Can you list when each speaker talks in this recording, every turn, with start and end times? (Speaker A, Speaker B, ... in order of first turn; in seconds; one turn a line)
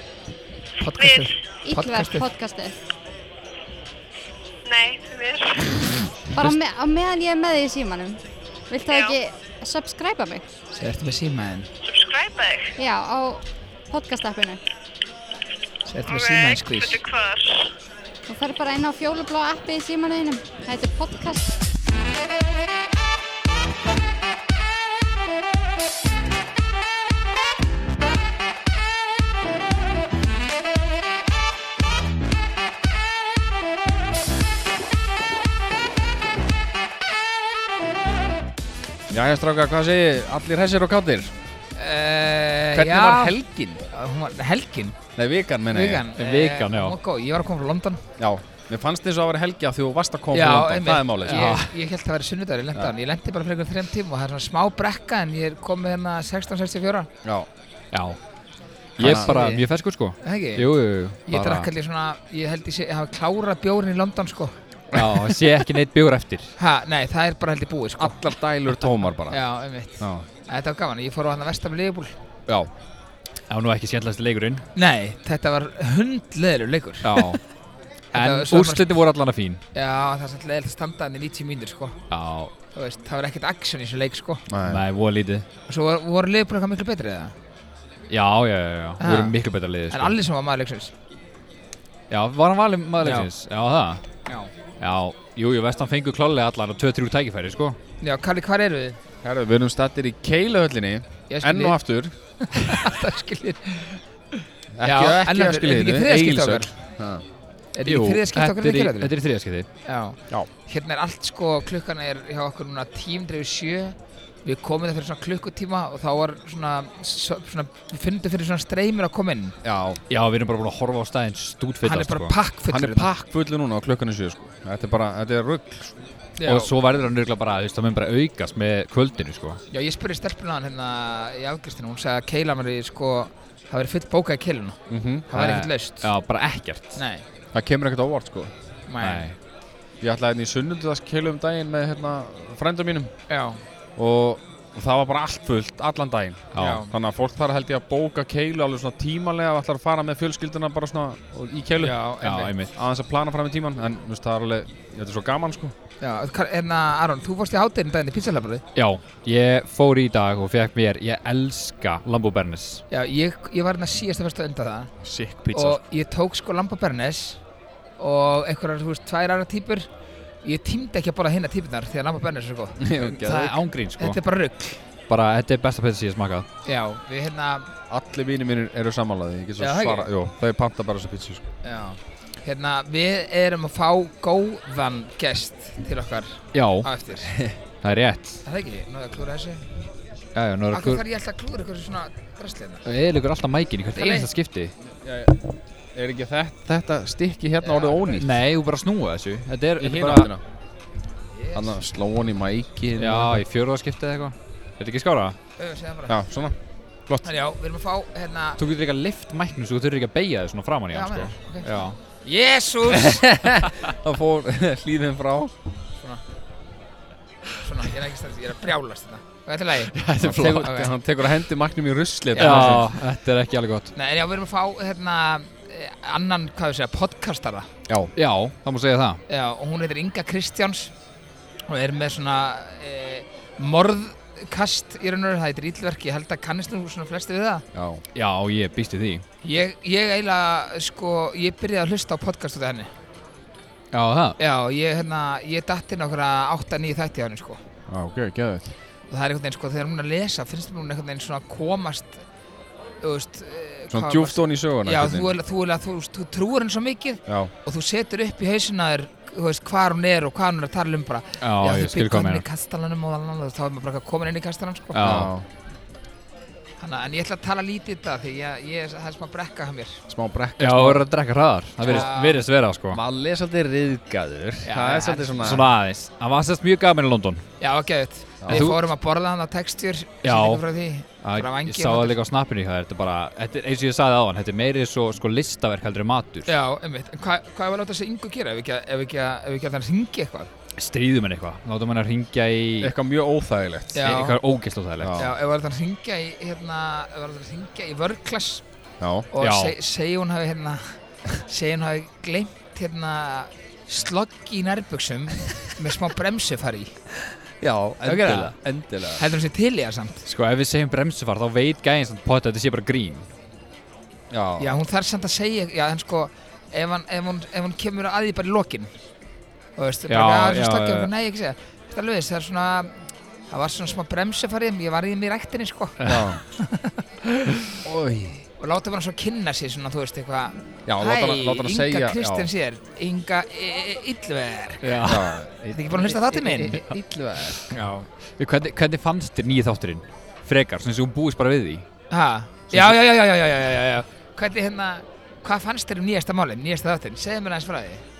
Speaker A: 0.8-2.3
Speaker B: 1.0-1.3
Speaker C: 1.6-2.7
Speaker B: 4.6-5.7
Speaker C: 6.3-10.4
Speaker B: 8.8-9.1
Speaker A: 10.7-11.7
Speaker B: 11.8-12.7
Speaker C: 12.8-14.6
Speaker A: 15.9-17.0
Speaker B: 16.1-17.7
Speaker C: 18.3-21.5
Speaker D: 39.1-41.3
Speaker A: 41.8-45.0
Speaker D: 42.7-43.5
Speaker D: 45.1-46.1
Speaker A: 45.7-48.0
Speaker E: 46.1-47.0
Speaker D: 48.2-51.5
Speaker A: 50.3-57.1
Speaker E: 51.2-51.7
Speaker E: 57.9-58.2
Speaker E: 59.0-61.7
Speaker D: 59.0-59.3
Speaker A: 59.0-59.6
Speaker A: 60.2-60.6
Speaker A: 61.2-64.5
Speaker D: 64.9-65.2
Speaker E: 64.9-66.5
Speaker A: 66.6-68.2
Speaker D: 68.0-69.4
Speaker A: 69.3-72.1
Speaker D: 70.0-70.2
Speaker E: 73.5-74.6
Speaker A: 74.7-77.3
Speaker E: 77.0-77.4
Speaker A: 78.1-78.8
Speaker E: 78.1-79.6
Speaker A: 79.7-82.0
Speaker E: 82.1-82.5
Speaker A: 82.7-84.4
Speaker D: 84.5-84.8
Speaker E: 84.7-85.5
Speaker A: 85.7-87.3
Speaker E: 88.1-90.1
Speaker A: 89.0-89.4
Speaker A: 89.9-90.9
Speaker E: 92.1-94.0
Speaker A: 93.0-93.3
Speaker E: 94.8-97.8
Speaker A: 98.0-99.0
Speaker D: 99.2-102.1
Speaker A: 101.3-101.8
Speaker A: 102.4-104.0
Speaker D: 104.8-107.2
Speaker A: 104.8-106.7
Speaker A: 107.7-109.1
Speaker E: 107.8-109.7
Speaker A: 109.8-119.5
Speaker D: 119.6-120.0
Speaker E: 120.1-122.3
Speaker A: 121.8-123.1
Speaker D: 122.7-125.9
Speaker A: 126.4-126.7
Speaker E: 126.4-129.6
Speaker A: 129.7-134.8
Speaker D: 134.9-135.3
Speaker A: 135.3-136.1
Speaker E: 135.3-137.0
Speaker A: 136.9-137.2
Speaker D: 137.5-138.5
Speaker A: 138.9-139.3
Speaker E: 139.0-139.3
Speaker D: 140.0-143.1
Speaker A: 143.3-143.6
Speaker D: 144.0-151.9
Speaker E: 146.5-146.8
Speaker A: 146.6-146.9
Speaker A: 151.8-152.5
Speaker E: 152.2-152.7
Speaker D: 152.7-155.7
Speaker A: 156.0-158.6
Speaker E: 158.7-162.8
Speaker A: 162.9-164.9
Speaker D: 165.0-165.8
Speaker A: 165.5-167.4
Speaker A: 168.0-169.9
Speaker A: 170.4-174.8
Speaker D: 172.8-173.4
Speaker E: 173.0-174.2
Speaker E: 175.1-176.4
Speaker A: 176.7-177.7
Speaker D: 177.9-181.4
Speaker A: 179.6-180.1
Speaker A: 181.6-187.3
Speaker E: 186.5-186.9
Speaker E: 187.8-188.4
Speaker A: 188.4-189.7
Speaker E: 190.3-191.0
Speaker A: 190.7-192.8
Speaker E: 192.8-194.7
Speaker A: 193.9-194.3
Speaker D: 194.8-195.4
Speaker D: 195.9-198.3
Speaker A: 197.6-198.2
Speaker E: 198.2-200.3
Speaker D: 199.8-200.4
Speaker A: 201.3-201.8
Speaker D: 201.5-203.4
Speaker E: 203.0-205.3
Speaker A: 205.6-206.1
Speaker D: 206.1-206.6
Speaker A: 207.2-208.6
Speaker E: 208.6-211.9
Speaker A: 210.9-213.2
Speaker D: 212.9-215.5
Speaker A: 217.6-220.0
Speaker E: 219.9-220.8
Speaker D: 220.2-223.0
Speaker A: 220.6-220.9
Speaker A: 222.3-222.8
Speaker E: 222.4-223.9
Speaker A: 223.9-227.7
Speaker E: 228.2-229.2
Speaker A: 229.3-230.9
Speaker A: 231.7-237.6
Speaker D: 237.7-238.0
Speaker E: 238.1-239.2
Speaker A: 239.4-242.9
Speaker E: 243.9-244.4
Speaker A: 244.4-247.6
Speaker D: 247.9-248.7
Speaker A: 249.1-252.2
Speaker A: 253.0-265.2
Speaker D: 253.9-255.3
Speaker D: 257.3-257.5
Speaker E: 261.4-262.4
Speaker E: 264.9-265.3
Speaker D: 265.0-265.4
Speaker A: 266.8-270.0
Speaker D: 270.1-271.1
Speaker E: 270.6-273.0
Speaker A: 271.8-272.4
Speaker D: 272.9-275.7
Speaker A: 274.6-275.6
Speaker E: 275.4-277.4
Speaker A: 277.6-282.2
Speaker D: 278.4-278.6
Speaker E: 278.5-278.8
Speaker E: 280.2-280.6
Speaker E: 281.2-286.5
Speaker A: 286.5-290.5
Speaker E: 290.8-292.9
Speaker D: 292.8-294.1
Speaker A: 293.9-294.4
Speaker E: 294.0-295.2
Speaker D: 295.0-295.3
Speaker A: 295.1-298.6
Speaker D: 299.0-299.3
Speaker A: 299.3-306.9
Speaker E: 299.4-299.7
Speaker D: 307.6-309.2
Speaker A: 308.0-308.5
Speaker A: 309.2-310.2
Speaker E: 310.2-313.2
Speaker D: 314.3-314.7
Speaker A: 314.6-318.9
Speaker A: 319.8-322.9
Speaker E: 320.1-321.1
Speaker A: 323.5-327.0
Speaker E: 326.0-326.3
Speaker D: 326.1-326.4
Speaker D: 327.8-328.4
Speaker A: 328.6-334.9
Speaker D: 330.9-332.5
Speaker E: 334.8-335.4
Speaker D: 335.1-337.7
Speaker A: 335.7-336.8
Speaker A: 337.7-338.1
Speaker E: 338.4-341.8
Speaker A: 342.1-348.0